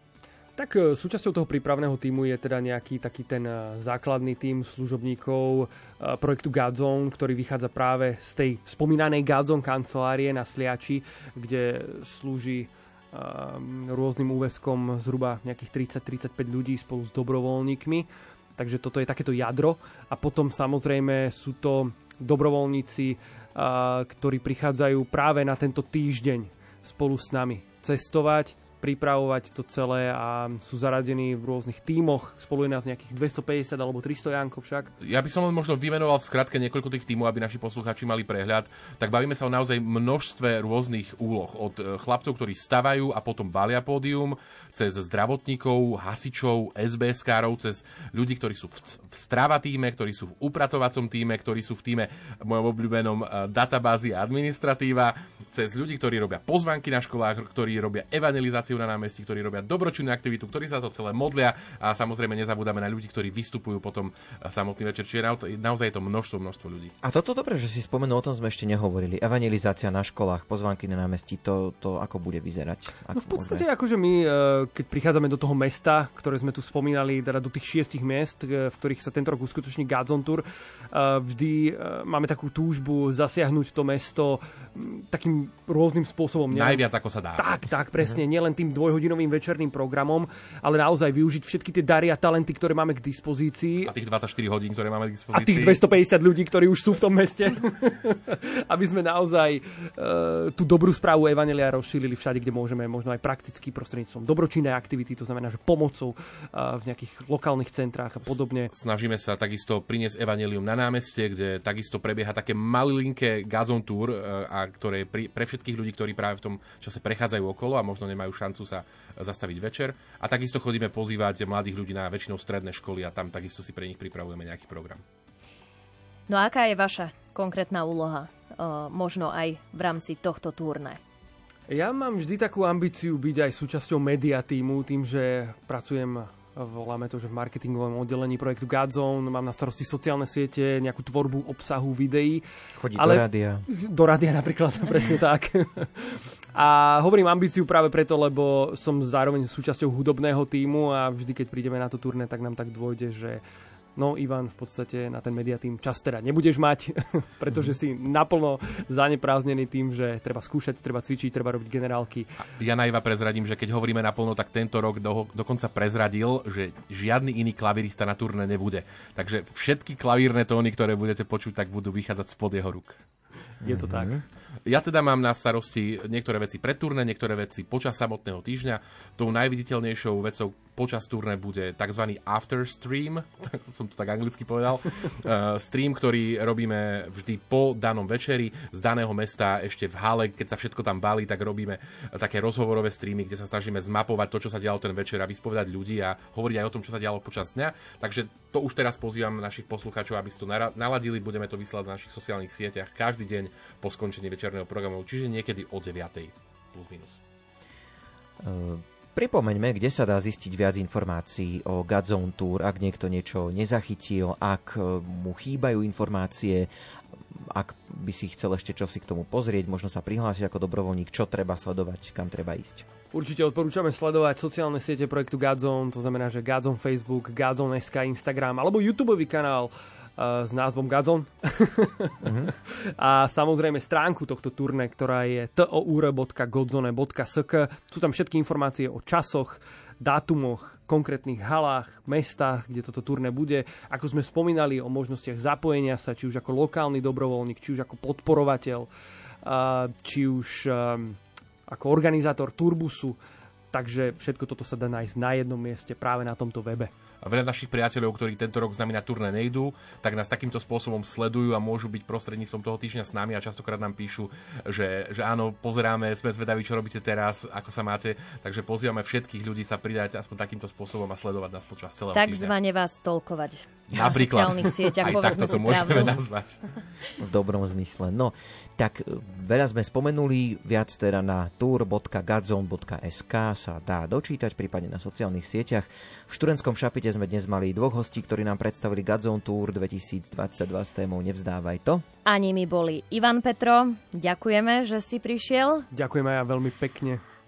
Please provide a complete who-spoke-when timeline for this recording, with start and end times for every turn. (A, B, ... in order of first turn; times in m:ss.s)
0:00.6-0:34.9 A
0:35.0-1:06.9 B
1:07.0-1:13.6 C
1:13.1-1:26.8 A
1:26.5-1:27.6 B
1:27.4-1:33.9 A
1:33.8-1:35.8 B
1:35.3-1:48.7 A
1:48.2-2:05.0 B
2:06.3-2:11.0 D
2:11.7-2:22.4 A
2:22.8-2:23.6 C
2:23.0-2:33.4 A
2:34.0-2:42.3 A
2:42.6-2:53.0 B
2:53.6-2:54.1 A
2:53.6-2:54.2 C
2:54.6-3:27.2 B
3:28.4-3:36.7 C
3:37.3-3:42.8 C
3:43.1-3:52.1 A
3:52.2-3:52.5 C
3:53.0-4:08.9 A
4:09.4-4:13.2 A
4:13.7-4:16.9 A
4:17.2-4:32.5 B
4:32.1-4:36.2 D
4:33.9-4:36.6 B
4:37.2-4:52.0 C
4:52.2-4:55.8 D
4:55.9-4:57.2 A